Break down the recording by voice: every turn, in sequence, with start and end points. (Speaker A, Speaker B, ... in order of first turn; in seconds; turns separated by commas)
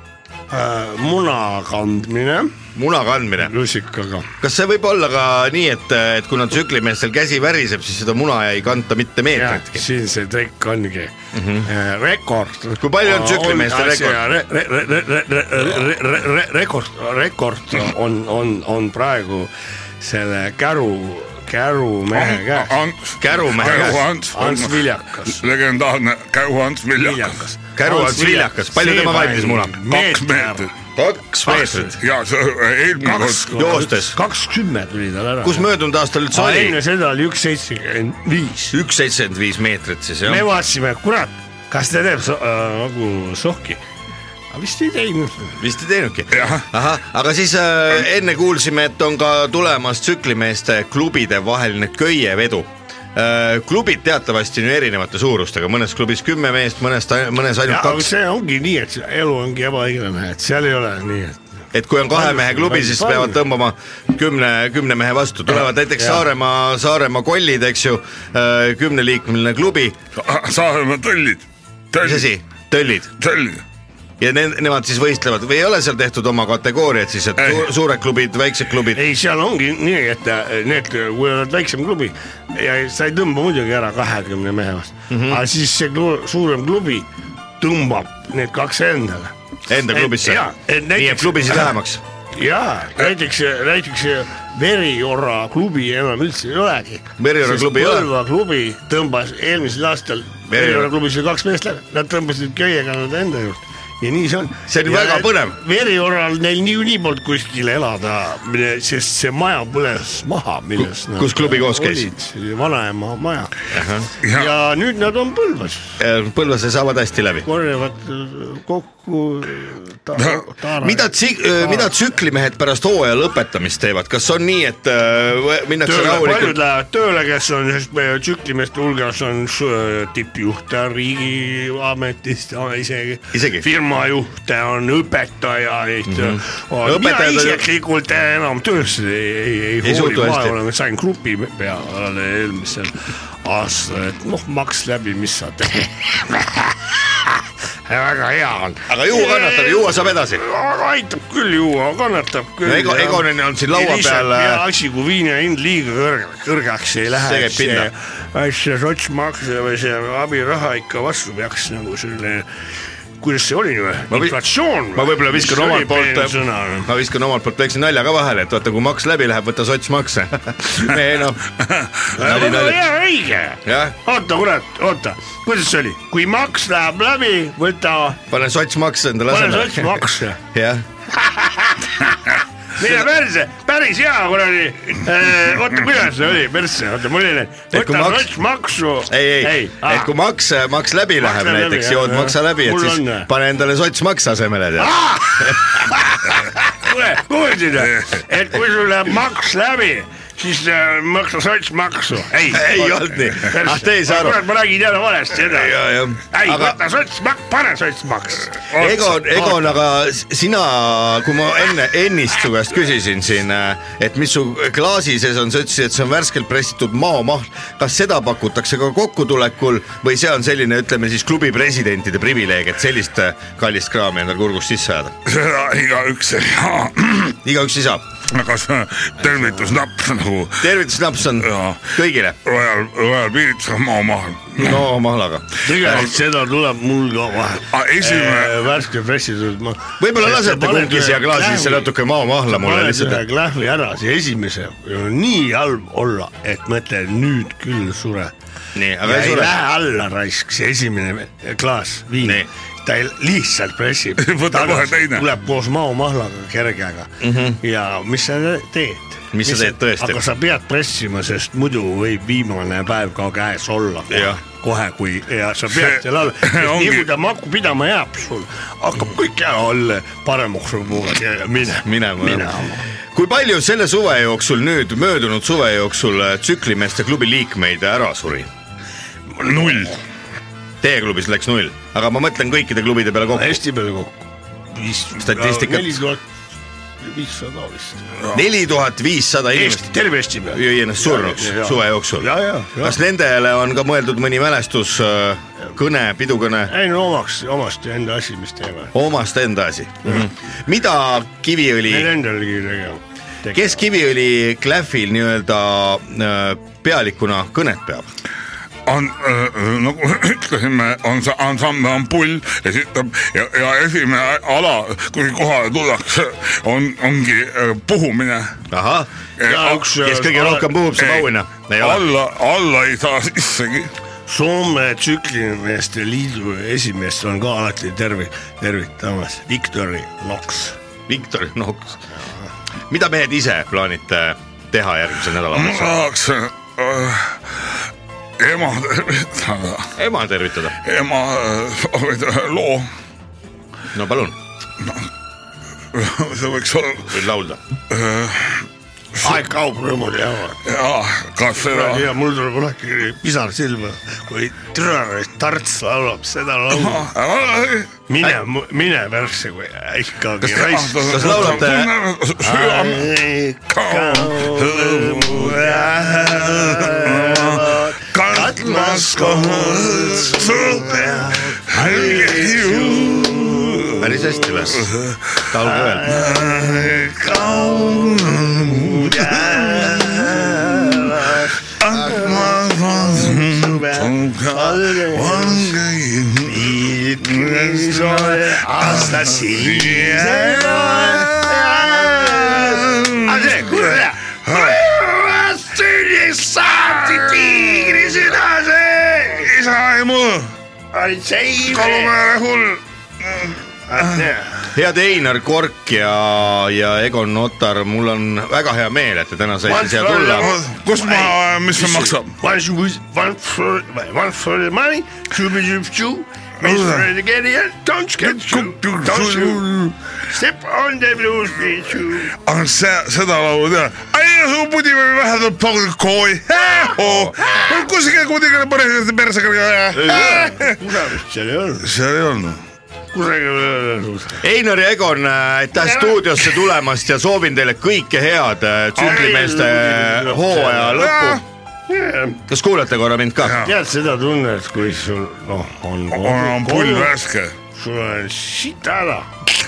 Speaker A: 0.5-2.5, Speaker B: 2.8-3.5, Speaker A: 3.5-4.3, Speaker B: 4.4-9.8, Speaker A: 9.3-11.1, Speaker B: 11.3-11.7, Speaker A: 11.7-22.8, Speaker B: 12.8-14.2, Speaker C: 22.1-27.4, Speaker B: 23.2-24.1, Speaker A: 23.6-25.4, Speaker A: 27.0-30.7, Speaker B: 27.8-29.8, Speaker C: 29.9-30.7, Speaker B: 31.0-32.0, Speaker A: 31.4-32.0, Speaker C: 31.9-33.6, Speaker A: 33.0-35.7, Speaker B: 33.5-34.2, Speaker B: 35.4-36.8, Speaker A: 36.3-38.8, Speaker B: 38.7-40.5, Speaker A: 40.2-43.8, Speaker A: 44.5-45.6, Speaker B: 45.6-58.1, Speaker C: 46.3-46.7, Speaker A: 57.7-61.4, Speaker B: 61.7-70.0, Speaker A: 62.1-63.4, Speaker A: 65.5-66.2, Speaker C: 70.2-72.3, Speaker B: 72.0-73.1, Speaker C: 73.2-73.6, Speaker B: 74.2-79.0, Speaker C: 77.4-77.7, Speaker A: 78.9-87.1, Speaker B: 85.1-85.4, Speaker A: 87.6-89.3, Speaker B: 89.7-92.0, Speaker A: 89.9-91.7, Speaker A: 92.4-113.5, Speaker B: 97.2-98.1, Speaker B: 100.5-100.9, Speaker B: 104.7-105.6, Speaker B: 111.2-112.1, Speaker B: 113.7-114.1, Speaker A: 114.2-116.0, Speaker C: 114.2-114.5, Speaker B: 116.0-117.5, Speaker A: 117.4-121.1, Speaker C: 120.2-120.4, Speaker B: 120.8-126.6, Speaker A: 121.6-121.9, Speaker A: 125.8-147.3, Speaker B: 133.3-133.7, Speaker B: 136.1-137.6, Speaker B: 139.8-140.6, Speaker A: 147.9-162.5, Speaker B: 148.9-150.4, Speaker B: 152.7-154.6, Speaker B: 157.2-157.9, Speaker A: 163.2-166.9, Speaker B: 164.1-164.4, Speaker B: 164.9-171.5, Speaker C: 171.6-172.0, Speaker B: 172.1-172.8, Speaker A: 172.1-178.2, Speaker B: 173.7-173.9, Speaker B: 178.3-180.8, Speaker A: 179.3-180.4, Speaker A: 181.2-182.1, Speaker A: 182.8-190.1, Speaker B: 187.7-188.3, Speaker B: 189.1-195.9, Speaker A: 191.2-193.3, Speaker A: 194.8-205.8, Speaker C: 197.8-198.2, Speaker B: 202.5-204.4, Speaker B: 205.4-206.8, Speaker A: 206.3-208.6, Speaker C: 208.7-209.8, Speaker B: 208.8-225.1, Speaker C: 225.3-227.4, Speaker B: 227.4-228.0, Speaker C: 228.3-230.7, Speaker B: 230.6-232.4, Speaker C: 231.4-234.8, Speaker B: 234.6-236.1, Speaker A: 235.6-241.9, Speaker C: 237.7-238.7, Speaker B: 240.0-243.2, Speaker A: 242.5-248.3, Speaker B: 248.8-249.6, Speaker A: 249.0-272.8, Speaker B: 252.2-252.5, Speaker C: 254.2-255.3, Speaker B: 257.2-257.6, Speaker B: 259.3-260.2, Speaker B: 264.1-264.4, Speaker C: 265.7-267.1, Speaker B: 271.8-272.5, Speaker B: 273.1-278.5, Speaker A: 279.3-280.0, Speaker C: 279.4-280.0, Speaker B: 280.8-283.6, Speaker A: 283.3-286.2, Speaker B: 285.1-286.0, Speaker A: 287.0-288.2, Speaker B: 288.3-289.9, Speaker A: 289.5-293.0, Speaker B: 290.5-296.7, Speaker A: 296.7-298.9, Speaker B: 298.9-302.1, Speaker A: 301.9-303.8, Speaker B: 303.5-308.1, Speaker C: 308.9-318.6, Speaker B: 318.7-319.1, Speaker C: 319.4-319.8, Speaker A: 319.4-320.7, Speaker B: 319.9-322.1, Speaker C: 321.0-323.9, Speaker A: 324.3-330.8, Speaker B: 331.1-332.0, Speaker B: 332.9-336.0, Speaker C: 335.5-337.8, Speaker C: 338.4-339.9, Speaker B: 340.0-340.8, Speaker C: 340.8-342.9, Speaker B: 343.9-344.4, Speaker C: 345.9-347.2, Speaker B: 347.1-347.6, Speaker C: 347.9-348.6, Speaker A: 349.2-350.6, Speaker C: 350.6-352.1, Speaker A: 351.6-357.1, Speaker C: 356.7-357.9, Speaker A: 358.1-361.6, Speaker C: 360.4-363.1, Speaker B: 360.5-361.9, Speaker A: 362.4-374.5, Speaker C: 363.7-374.0, Speaker B: 374.0-374.9, Speaker C: 374.8-375.4, Speaker B: 375.5-376.2, Speaker A: 375.6-385.8, Speaker C: 376.1-381.2, Speaker C: 381.8-394.8, Speaker A: 386.4-399.5, Speaker C: 396.8-398.1, Speaker C: 399.4-400.5, Speaker A: 400.9-402.1, Speaker C: 401.7-404.3, Speaker A: 403.9-404.7, Speaker B: 404.7-410.5, Speaker A: 409.6-422.4, Speaker C: 410.4-412.4, Speaker C: 416.6-417.1, Speaker C: 418.2-419.7, Speaker C: 422.4-430.8, Speaker A: 429.9-431.9, Speaker C: 431.8-432.6, Speaker A: 433.1-434.4, Speaker B: 434.4-441.4, Speaker A: 435.8-436.7, Speaker A: 439.0-441.2, Speaker C: 440.9-441.4, Speaker A: 441.9-442.4, Speaker B: 442.5-443.6, Speaker C: 443.4-443.8, Speaker A: 443.6-447.1, Speaker C: 446.1-447.6, Speaker A: 447.7-449.4